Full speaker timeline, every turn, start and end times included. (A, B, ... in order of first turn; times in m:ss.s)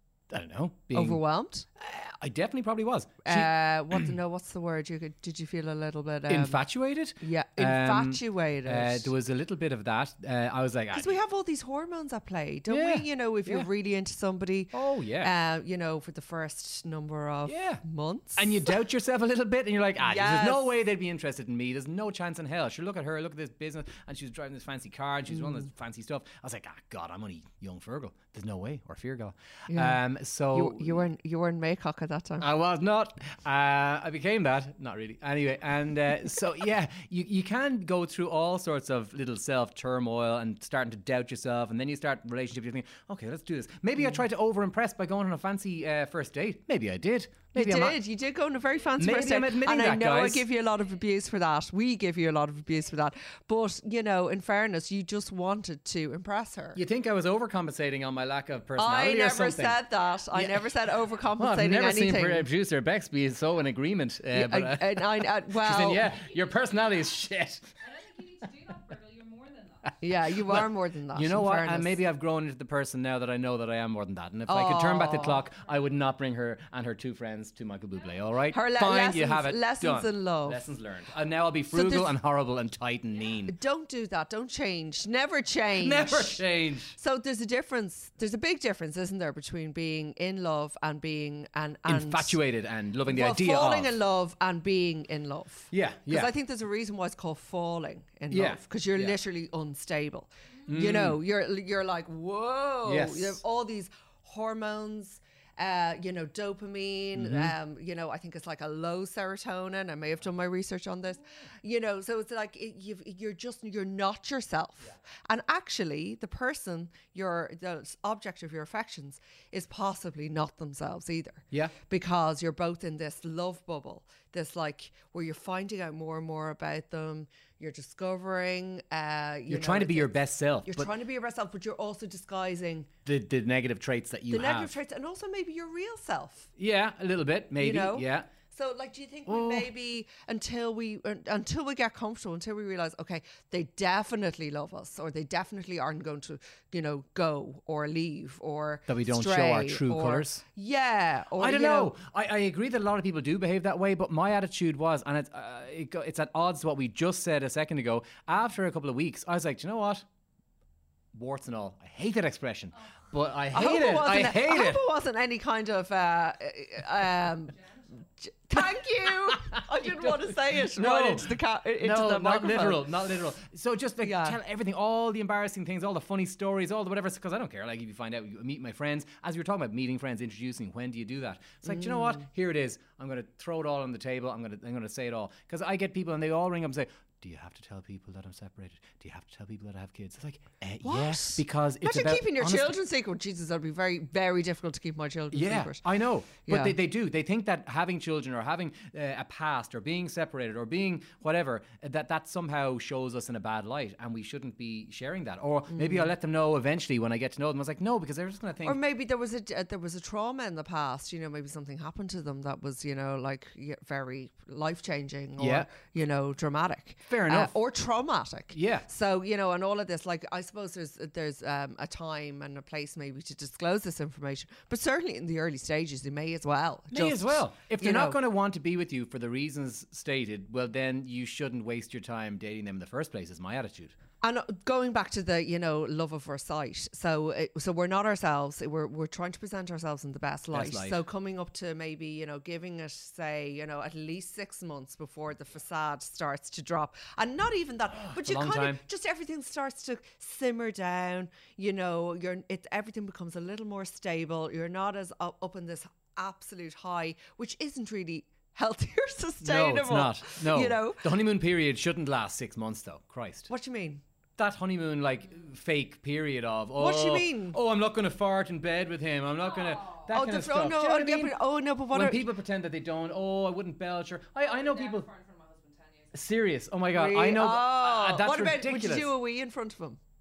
0:00.3-0:01.2 A
0:00.9-0:01.7 B
0:01.8-0:04.1 A
0:03.2-0:06.6 B
0:06.3-0:11.2 A
0:07.2-0:09.1 B
0:10.9-0:18.8 B
0:12.7-0:13.7 A
0:14.7-0:15.3 A
0:17.5-0:17.8 A
0:18.4-0:31.0 A
0:20.0-0:20.7 B
0:29.7-0:32.5 B
0:32.4-0:48.0 A
0:47.5-0:56.8 B
0:49.0-0:50.5 A
0:56.8-1:07.7 A
0:58.8-1:02.5 B
1:04.3-1:06.2 B
1:06.0-1:07.2 C
1:07.8-1:10.0 C
1:10.0-1:12.0 B
1:10.3-1:23.6 A
1:14.5-1:15.5 B
1:18.5-1:20.6 B
1:21.7-1:22.1 B
1:23.5-1:32.4 B
1:25.8-1:27.0 A
1:31.9-1:33.9 A
1:33.0-2:12.9 B
1:35.7-1:36.3 A
1:38.3-1:39.2 A
1:40.7-1:41.2 A
1:42.8-1:43.4 A
1:47.2-1:47.6 A
2:09.5-2:10.9 A
2:13.0-2:14.7 A
2:14.3-2:16.5 B
2:16.6-2:18.3 A
2:17.6-2:31.9 B
2:19.3-2:19.7 A
2:28.9-2:30.4 A
2:31.4-2:40.0 A
2:41.1-2:44.8 A
2:42.8-2:43.1 C
2:43.5-2:47.6 B
2:47.5-2:48.0 C
2:48.2-2:52.9 B
2:48.7-3:12.8 A
2:54.0-2:54.4 B
3:01.6-3:02.2 B
3:10.8-3:15.8 B
3:15.3-3:28.8 A
3:16.4-3:16.8 B
3:25.7-3:26.1 B
3:28.6-3:48.2 B
3:35.4-3:35.7 A
3:37.1-3:37.6 A
3:38.5-3:38.9 A
3:46.9-3:54.0 A
3:54.2-4:21.2 B
4:00.5-4:01.0 A
4:08.0-4:08.8 A
4:19.4-4:23.5 A
4:23.5-4:24.0 B
4:24.4-4:35.1 A
4:26.8-4:27.6 B
4:29.4-4:30.1 C
4:30.1-4:32.3 B
4:34.4-4:36.2 C
4:36.1-4:39.1 A
4:36.9-4:40.0 B